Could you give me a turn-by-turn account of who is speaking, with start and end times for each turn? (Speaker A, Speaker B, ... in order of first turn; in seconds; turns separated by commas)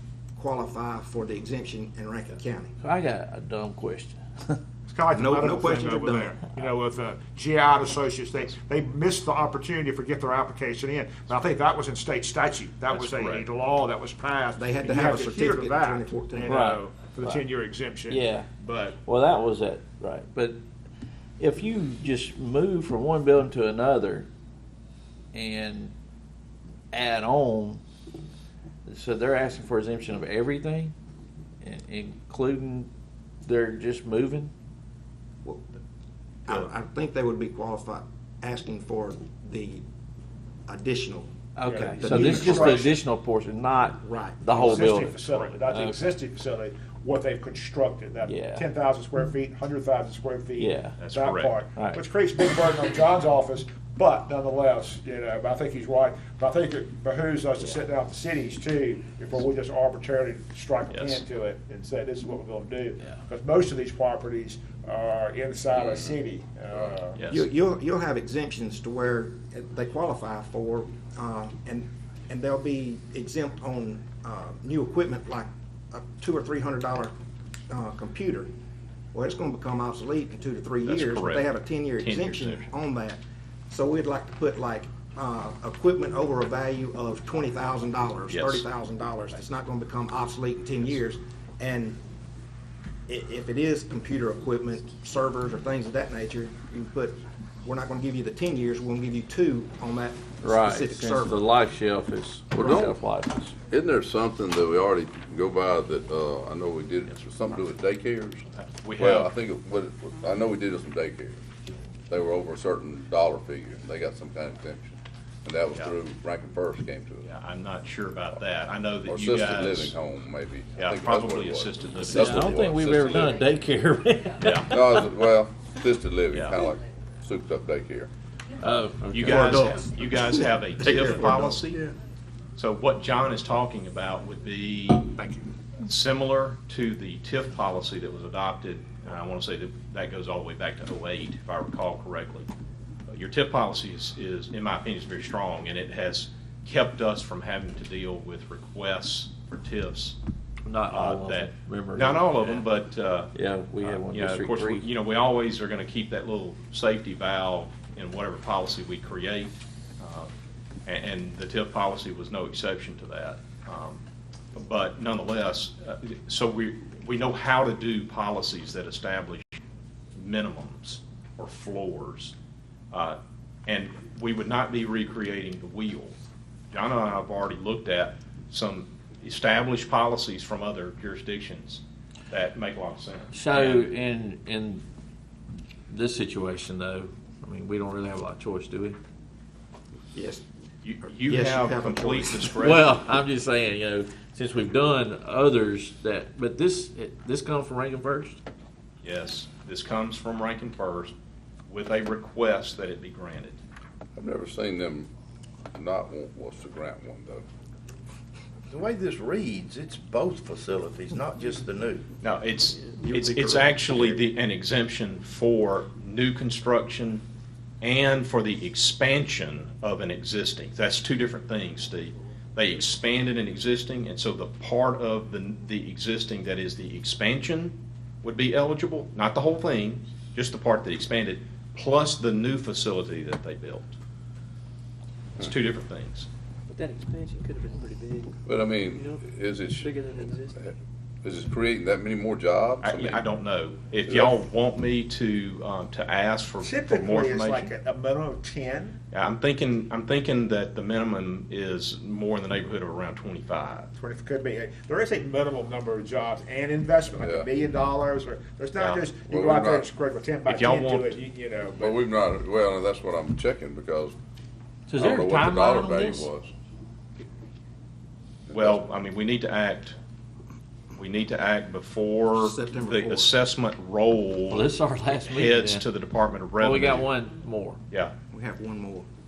Speaker A: 0.3-2.7, Speaker B: 2.8-4.6, Speaker C: 4.9-19.0, Speaker A: 5.1-6.4, Speaker D: 12.9-13.4, Speaker A: 14.6-16.6, Speaker B: 16.5-17.4, Speaker B: 18.1-18.5, Speaker B: 19.0-20.6, Speaker B: 21.4-24.3, Speaker B: 25.3-25.9, Speaker B: 26.9-27.8, Speaker B: 28.9-30.9, Speaker B: 31.6-32.9, Speaker B: 33.4-34.5, Speaker A: 35.4-35.8, Speaker A: 36.5-39.8, Speaker A: 40.7-41.3, Speaker B: 41.6-46.1, Speaker C: 41.6-43.0, Speaker A: 41.9-43.0, Speaker A: 44.0-44.5, Speaker C: 44.5-67.2, Speaker D: 45.3-45.5, Speaker B: 48.2-48.6, Speaker B: 50.6-51.0, Speaker D: 51.0-51.5, Speaker B: 51.8-52.0, Speaker D: 60.9-61.2, Speaker D: 67.1-67.5, Speaker A: 67.3-77.1, Speaker A: 77.7-78.5, Speaker A: 79.1-92.0, Speaker D: 80.8-81.5, Speaker D: 82.0-82.6, Speaker D: 88.3-88.6, Speaker A: 93.1-101.4, Speaker B: 100.4-103.5, Speaker E: 102.6-103.0, Speaker E: 103.7-108.4, Speaker D: 108.5-109.3, Speaker E: 109.0-111.4, Speaker E: 112.1-117.3, Speaker D: 117.2-119.9, Speaker E: 119.1-123.4, Speaker D: 120.8-122.5, Speaker B: 122.1-125.1, Speaker D: 124.4-124.7, Speaker E: 124.7-128.1, Speaker B: 128.6-129.6, Speaker D: 129.1-131.8, Speaker F: 129.3-129.8, Speaker F: 131.0-131.6, Speaker D: 132.6-135.1, Speaker C: 135.2-135.5, Speaker D: 135.8-142.5, Speaker D: 143.1-150.2, Speaker B: 150.6-152.7, Speaker D: 150.9-160.3, Speaker B: 153.3-154.9, Speaker D: 160.8-164.0, Speaker D: 164.5-169.6, Speaker D: 170.2-172.3, Speaker D: 172.9-176.1, Speaker D: 176.7-183.9, Speaker B: 183.3-184.8, Speaker B: 185.9-189.0, Speaker A: 190.1-190.4, Speaker D: 190.8-192.9, Speaker A: 191.1-192.6, Speaker B: 192.6-198.4, Speaker D: 199.0-201.1, Speaker D: 201.7-203.6, Speaker E: 204.1-205.1, Speaker E: 205.7-207.4, Speaker F: 208.7-212.1, Speaker D: 212.2-217.2, Speaker A: 213.0-214.3, Speaker D: 217.8-233.9, Speaker D: 235.4-236.3, Speaker G: 236.7-238.3, Speaker E: 238.4-240.7, Speaker G: 239.8-240.5, Speaker E: 241.2-243.2, Speaker D: 242.8-247.7, Speaker E: 244.1-244.4, Speaker C: 246.6-249.0, Speaker D: 249.1-253.9, Speaker C: 253.9-262.0, Speaker E: 257.2-257.5, Speaker D: 258.8-259.1, Speaker E: 259.3-259.9, Speaker D: 260.5-261.2, Speaker E: 261.8-264.1, Speaker B: 264.9-266.3, Speaker E: 265.0-266.5, Speaker E: 268.5-268.8, Speaker D: 268.5-269.9, Speaker D: 270.9-274.7, Speaker A: 272.4-273.4, Speaker B: 274.5-275.9, Speaker D: 275.2-277.1, Speaker B: 276.6-277.8, Speaker A: 278.3-279.1